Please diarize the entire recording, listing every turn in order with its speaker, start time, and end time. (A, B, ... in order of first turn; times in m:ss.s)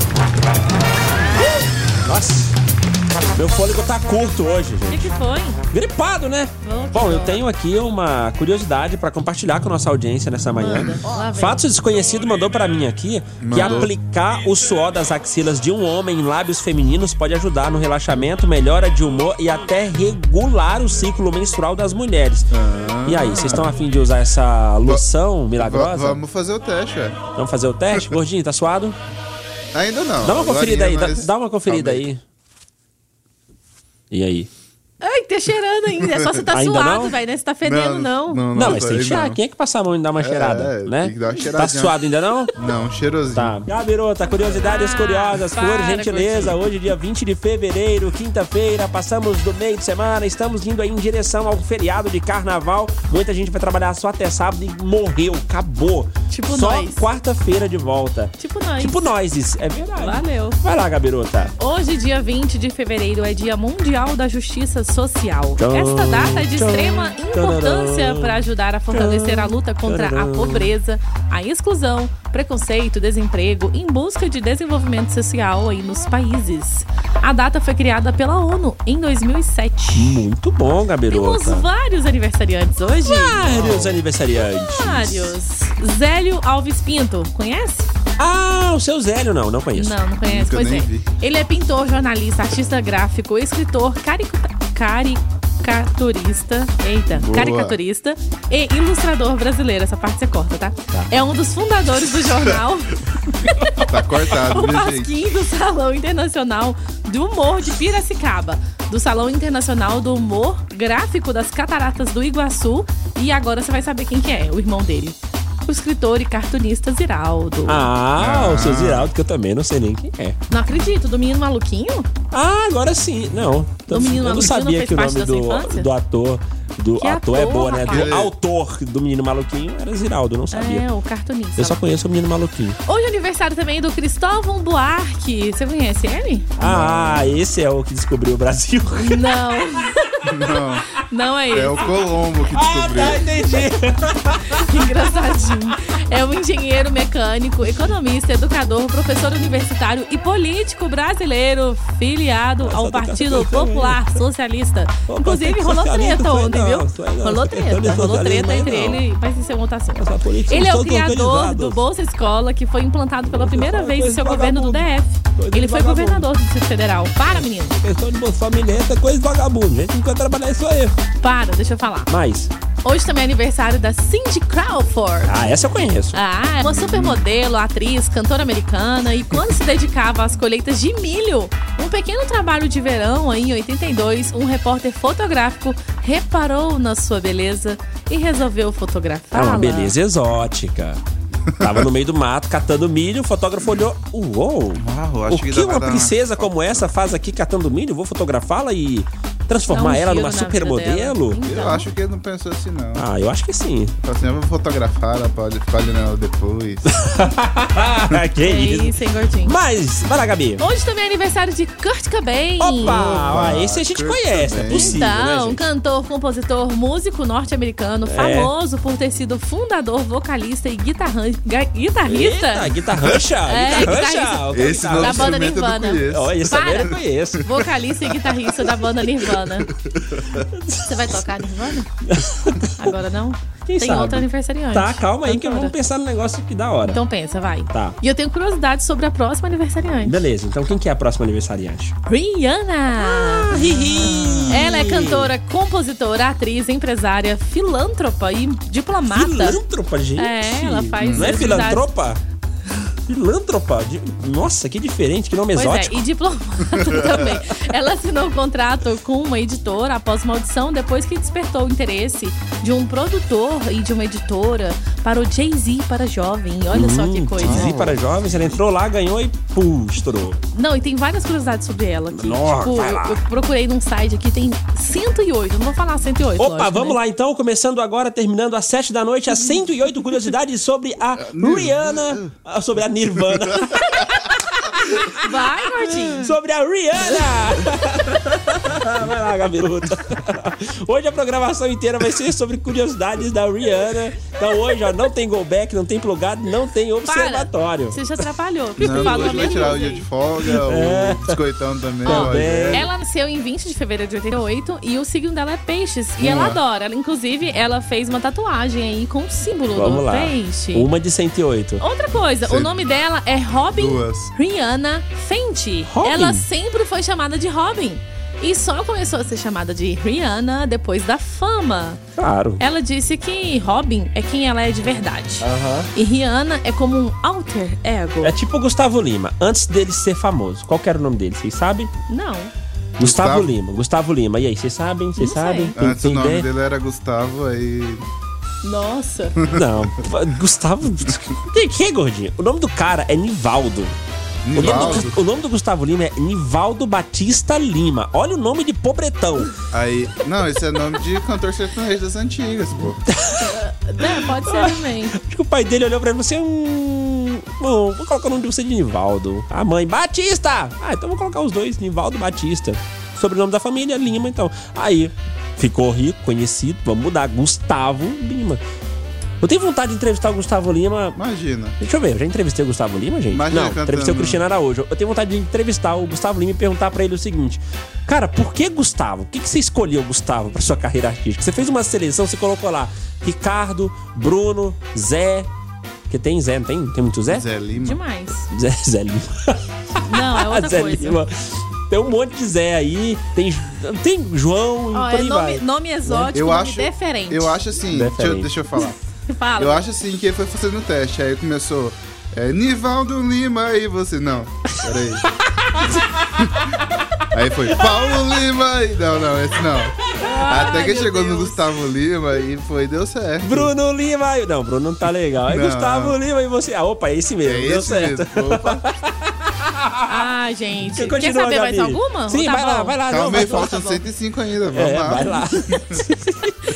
0:02.0-0:02.6 A
0:03.4-0:05.1 A
0:04.9-0:05.6 B
0:05.7-0:22.5 A
0:06.6-0:07.4 B
0:10.6-0:11.6 B
0:13.4-0:13.9 C
0:13.6-0:13.9 B
0:22.5-0:23.8 C
0:23.0-0:26.2 A
0:25.6-0:27.2 C
0:27.4-0:29.0 A
0:29.7-0:32.1 C
0:30.2-0:32.2 A
0:34.1-0:34.5 A
0:35.0-0:38.4 B
0:36.5-0:37.2 A
0:37.6-0:39.4 C
0:38.5-0:42.5 A
0:40.2-0:42.0 C
0:42.6-0:43.6 C
0:43.4-1:01.5 A
0:44.4-0:44.7 C
0:44.6-0:46.6 B
0:56.3-0:57.1 B
0:58.4-0:59.1 B
1:00.0-1:00.6 B
1:01.6-1:20.2 B
1:05.6-1:10.7 A
1:20.0-1:21.7 A
1:21.1-1:23.4 B
1:23.0-1:25.4 A
1:23.5-1:24.0 C
1:24.4-1:27.9 B
1:28.2-1:30.0 A
1:29.8-1:43.7 B
1:30.2-1:31.1 C
1:37.1-1:37.8 C
1:43.9-1:45.1 C
1:44.2-1:57.9 B
1:57.7-2:00.4 A
1:58.2-1:59.1 C
2:00.5-2:02.1 B
2:02.3-2:10.8 A
2:03.9-2:05.9 B
2:07.0-2:08.1 B
2:07.9-2:08.3 C
2:10.5-2:11.8 B
2:11.6-2:12.8 A
2:12.9-2:16.5 B
2:16.6-2:19.3 A
2:16.6-2:17.4 C
2:18.9-2:20.2 B
2:20.3-2:20.9 C
2:21.0-2:21.9 B
2:21.5-2:23.3 C
2:22.5-2:24.9 A
2:24.6-2:47.8 B
2:32.7-2:34.1 A
2:35.1-2:39.0 A
2:40.0-2:41.8 A
2:43.3-2:46.3 A
2:47.3-2:50.9 A
2:51.2-2:52.1 B
2:52.1-2:52.5 A
2:52.8-2:55.4 B
2:55.2-2:56.2 A
2:56.1-3:09.9 B
2:56.6-2:57.2 C
3:09.3-3:11.0 A
3:11.5-3:11.9 C
3:11.6-3:21.4 A
3:14.8-3:16.9 C
3:19.7-3:21.9 B
3:21.4-3:23.1 C
3:23.0-3:24.0 A
3:24.0-3:26.9 C
3:26.9-3:28.9 A
3:28.4-3:29.6 B
3:29.4-3:30.6 A
3:30.6-3:33.4 B
3:32.6-3:35.6 A
3:32.8-3:35.0 C
3:34.7-3:42.8 B
3:38.1-3:38.5 A
3:42.1-3:45.4 A
3:43.5-3:49.7 B
3:44.5-3:46.9 C
3:46.1-3:47.4 A
3:50.4-3:50.9 A
3:50.9-3:51.9 B
3:52.1-3:52.9 A
3:52.8-3:55.8 B
3:53.7-3:57.0 A
3:56.9-4:00.2 B
3:57.7-3:58.0 A
4:00.0-4:02.0 A
4:02.1-4:09.6 B
4:03.0-4:05.3 A
4:04.0-4:04.6 C
4:09.1-4:12.2 A
4:10.2-4:11.9 B
4:11.0-4:11.8 C
4:13.1-4:16.0 A
4:15.6-4:27.7 B
4:26.7-4:30.4 A
4:27.4-4:28.0 C
4:30.5-4:37.0 B
4:32.1-4:33.2 A
4:36.4-4:45.3 A
4:41.3-4:42.3 C
4:45.1-4:46.3 B
4:46.1-4:58.0 A
4:57.1-5:00.1 B
4:58.8-4:59.7 A
4:58.8-5:02.9 C
5:00.5-5:01.4 A
5:02.0-5:02.9 A
5:02.1-5:10.9 B
5:06.2-5:06.6 C
5:09.8-5:11.8 A
5:11.8-5:22.0 B
5:12.4-5:12.8 C
5:13.7-5:14.3 C
5:15.9-5:16.4 A
5:22.2-5:22.6 A
5:22.6-5:28.3 B
5:25.4-5:25.9 A
5:28.2-5:31.9 A
5:32.1-5:32.5 B
5:33.0-5:36.5 A
5:33.0-5:33.5 C
5:35.2-5:35.8 B
5:35.8-5:38.0 C
5:38.6-5:39.4 B
5:39.5-5:44.0 A
5:44.4-5:45.2 C
5:44.6-5:49.5 A
5:44.6-5:45.0 B
5:49.7-5:53.0 C
5:53.1-5:53.5 A
5:53.4-5:55.2 B
5:54.1-6:08.6 A
6:09.4-6:11.2 A
6:11.2-6:11.8 C
6:11.8-6:25.5 A
6:13.3-6:14.4 C
6:26.1-6:27.4 A
6:27.3-6:28.0 C
6:27.8-6:28.5 B
6:28.5-6:36.3 A
6:30.1-6:31.2 B
6:34.9-6:37.5 B
6:36.3-6:39.0 C
6:37.9-6:38.5 A
6:39.3-6:39.8 B
6:39.6-6:45.2 C
6:45.5-6:46.7 A
6:46.4-6:46.7 C
6:47.3-6:53.7 C
6:50.2-6:51.7 B
6:53.4-7:00.2 A
6:55.5-6:56.2 C
6:57.4-6:58.8 C
7:00.1-7:03.8 B
7:00.9-7:04.0 A
7:03.1-7:06.0 C
7:04.7-7:06.5 A